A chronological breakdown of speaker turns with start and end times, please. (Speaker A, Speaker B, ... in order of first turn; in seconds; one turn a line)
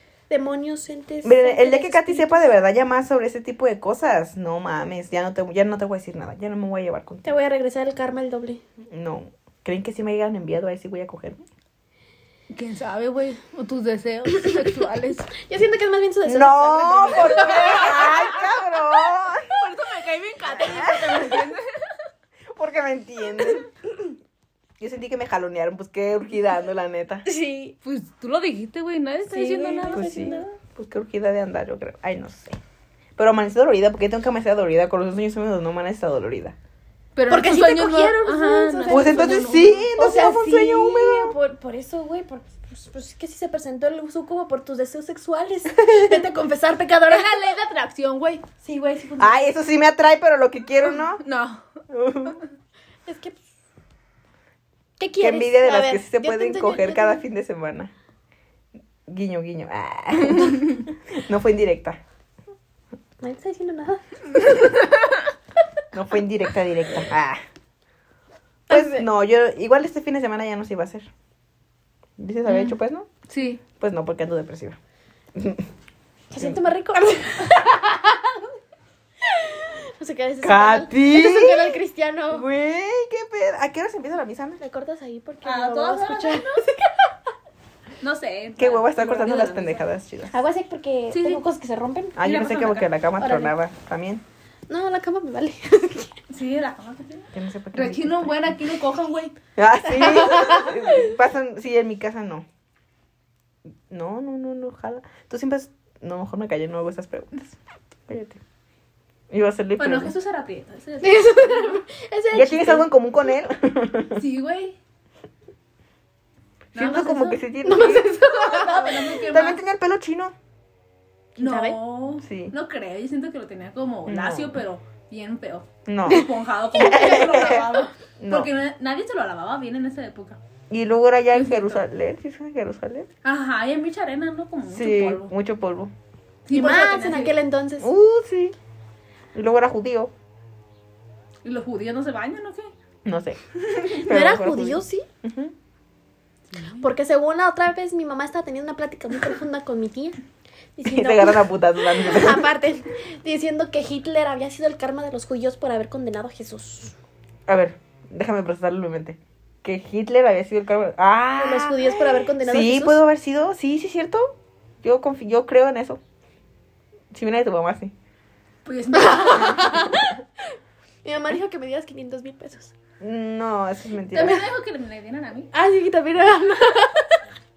Speaker A: 0.3-2.6
Speaker B: 1.2-7.3
Speaker A: 7.2-8.6
Speaker B: 8.9-11.4
Speaker C: 12.5-15.3
Speaker A: 15.4-18.5
Speaker B: 16.2-19.6
Speaker C: 19.5-22.0
Speaker B: 20.6-21.4
Speaker A: 20.7-21.0
Speaker B: 22.5-23.7
Speaker B: 24.8-27.2
Speaker A: 27.2-27.8
Speaker C: 27.8-30.1
Speaker A: 29.3-30.5
Speaker B: 29.9-32.6
Speaker B: 33.2-36.6
Speaker C: 37.2-39.9
Speaker A: 37.3-47.5
Speaker B: 38.9-41.4
Speaker C: 47.1-48.5
Speaker A: 48.6-49.4
Speaker B: 49.2-51.2
Speaker C: 50.9-51.7
Speaker B: 51.9-52.4
Speaker A: 53.1-53.4
Speaker A: 55.0-57.2
Speaker B: 55.2-57.9
Speaker B: 59.1-62.0
Speaker A: 63.2-64.5
Speaker B: 65.9-67.4
Speaker A: 68.7-69.1
Speaker B: 68.7-71.1
Speaker B: 72.2-73.1
Speaker C: 73.3-73.6
Speaker B: 73.8-74.8
Speaker B: 75.3-75.7
Speaker A: 76.3-78.4
Speaker B: 76.4-76.7
Speaker A: 79.2-82.5
Speaker B: 80.4-81.8
Speaker B: 82.3-84.6
Speaker A: 84.6-87.2
Speaker C: 85.4-86.6
Speaker C: 88.0-89.9
Speaker B: 88.6-90.3
Speaker A: 90.3-92.2
Speaker C: 91.1-91.4
Speaker B: 92.2-94.2
Speaker C: 92.2-92.9
Speaker A: 93.2-93.5
Speaker A: 94.7-96.1
Speaker C: 96.3-99.4
Speaker B: 97.3-98.6
Speaker B: 99.6-102.5
Speaker A: 99.9-101.0
Speaker B: 103.9-108.4
Speaker B: 109.3-110.1
Speaker C: 109.8-111.8
Speaker A: 111.0-113.1
Speaker B: 112.3-114.2
Speaker C: 114.2-114.8
Speaker B: 116.7-118.0
Speaker C: 116.7-119.6
Speaker A: 117.6-119.1
Speaker B: 119.3-120.3
Speaker A: 121.4-121.8
Speaker C: 121.4-130.4
Speaker B: 122.2-122.5
Speaker B: 124.1-124.6
Speaker B: 125.9-127.7
Speaker A: 126.8-127.6
Speaker B: 128.2-128.5
Speaker B: 130.7-133.1
Speaker C: 131.3-131.8
Speaker C: 133.2-135.3
Speaker B: 134.7-135.9
Speaker C: 136.5-137.4
Speaker A: 136.5-137.9
Speaker B: 137.8-138.6
Speaker B: 139.3-140.1
Speaker C: 141.4-142.7
Speaker B: 143.1-145.6
Speaker C: 143.6-144.0
Speaker A: 144.0-145.1
Speaker C: 146.5-146.9
Speaker A: 146.8-150.2
Speaker A: 150.8-156.9
Speaker B: 150.9-152.5
Speaker B: 157.5-166.0
Speaker A: 161.4-163.0
Speaker B: 167.1-167.9
Speaker C: 168.7-169.9
Speaker A: 168.9-170.2
Speaker A: 171.0-172.7
Speaker B: 173.0-174.5
Speaker C: 174.1-175.5
Speaker A: 175.5-177.2